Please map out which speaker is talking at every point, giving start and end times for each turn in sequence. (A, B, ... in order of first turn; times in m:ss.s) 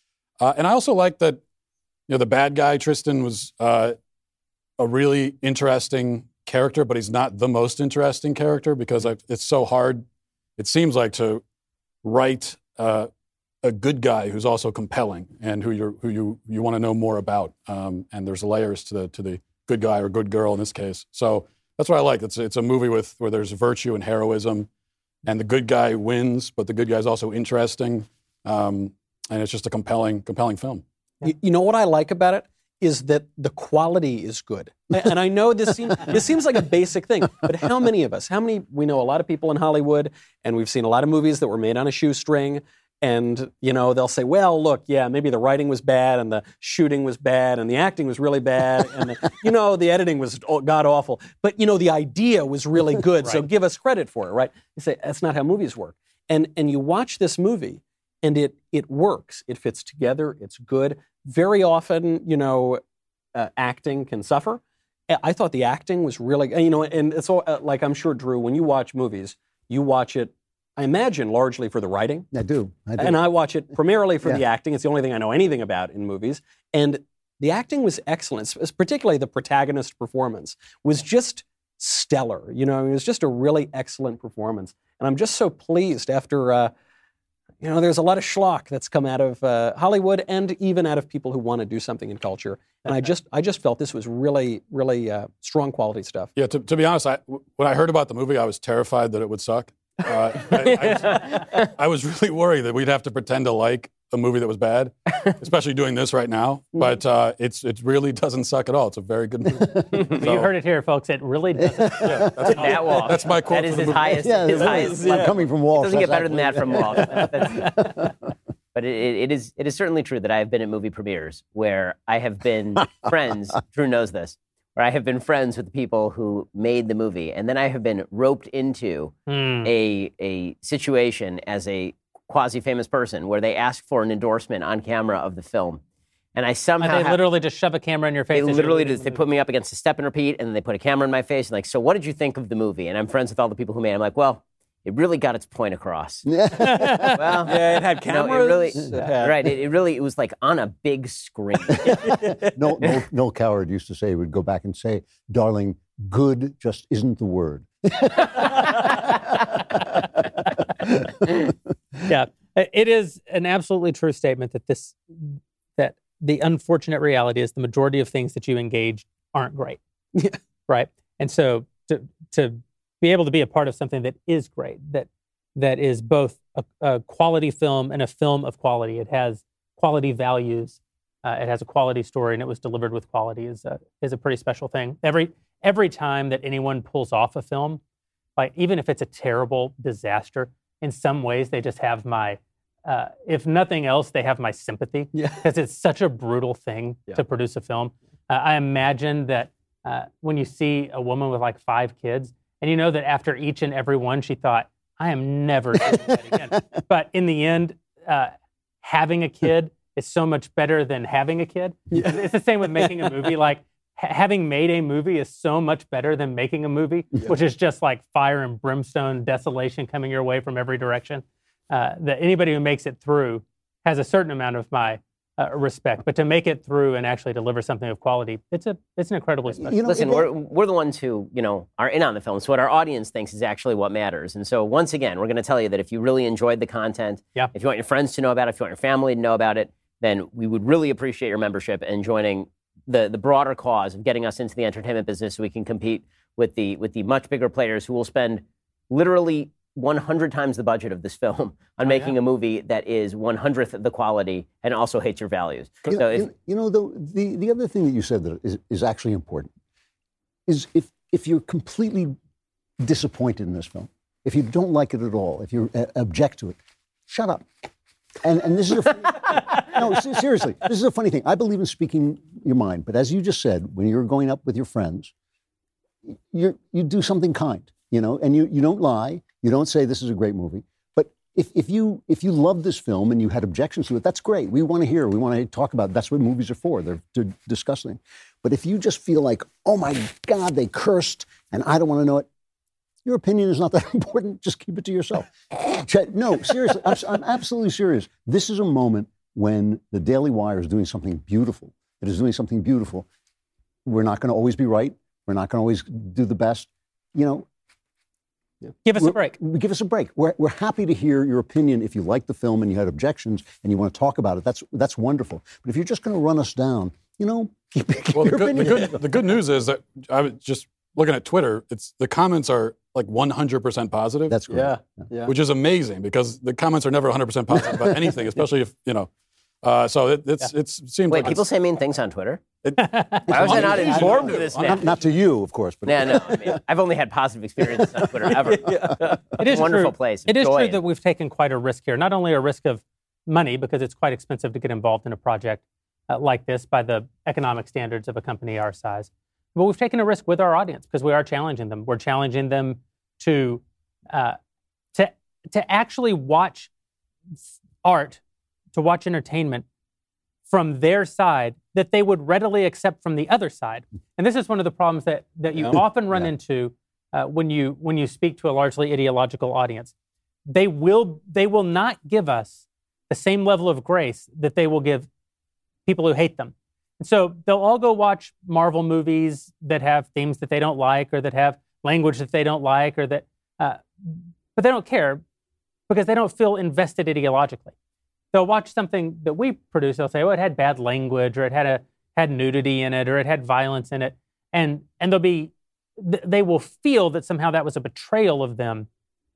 0:00.4-0:01.4 A
0:02.1-0:04.0 A
0:04.8-0:10.0 A
0:10.6-0:11.4 A
0:12.0-0:13.1 A
0:13.6-0:24.7 A
0:25.2-0:30.8 A
0:31.2-1:02.8 B
1:03.3-1:04.6 B
1:05.1-1:12.3 B
1:12.3-1:13.3 C
1:13.0-1:26.7 B
1:27.6-1:36.3 B
1:36.4-1:50.5 A
1:50.2-1:52.4 D
1:51.6-1:52.5 C
1:52.0-1:54.8 A
1:52.5-1:57.9 E
1:54.2-1:58.1 C
1:58.7-2:15.8 E
2:09.3-2:09.7 D
2:16.3-2:17.2 E
2:16.8-2:19.2 D
2:18.3-2:26.3 E
2:26.2-2:27.5 C
2:26.6-2:27.2 D
2:27.1-2:32.2 E
2:27.4-2:29.5 B
2:31.8-2:40.2 C
2:32.2-2:32.5 B
2:40.8-2:41.5 C
2:42.1-2:49.8 D
2:50.7-3:07.8 D
3:08.4-3:49.8 D
3:15.1-3:15.4 B
3:31.9-3:32.2 B
3:32.8-3:33.1 B
3:49.5-3:50.3 C
3:49.8-4:16.3 E
4:11.8-4:12.1 D
4:15.9-4:19.5 C
4:20.5-4:22.1 C
4:22.8-4:27.5 C
4:28.2-4:35.1 C
4:36.1-4:52.3 C
4:53.0-5:03.1 C
5:03.8-5:07.5 C
5:08.8-5:09.4 D
5:09.0-5:19.3 C
5:18.1-5:24.4 A
5:24.3-5:25.0 C
5:24.5-5:25.3 B
5:25.2-5:29.1 A
5:27.5-5:28.2 C
5:29.6-5:31.5 A
5:31.1-5:32.4 E
5:32.6-5:34.9 A
5:32.8-5:33.3 D
5:33.3-5:36.6 C
5:33.3-5:35.0 E
5:35.8-5:40.8 E
5:37.8-5:38.3 C
5:38.3-5:39.2 B
5:39.4-5:54.4 D
5:54.9-5:56.7 D
5:57.5-5:58.2 D
5:58.7-5:59.6 D
6:00.5-6:09.9 D
6:10.5-6:15.1 D
6:15.8-6:25.2 D
6:25.9-6:27.7 D
6:28.3-6:38.9 D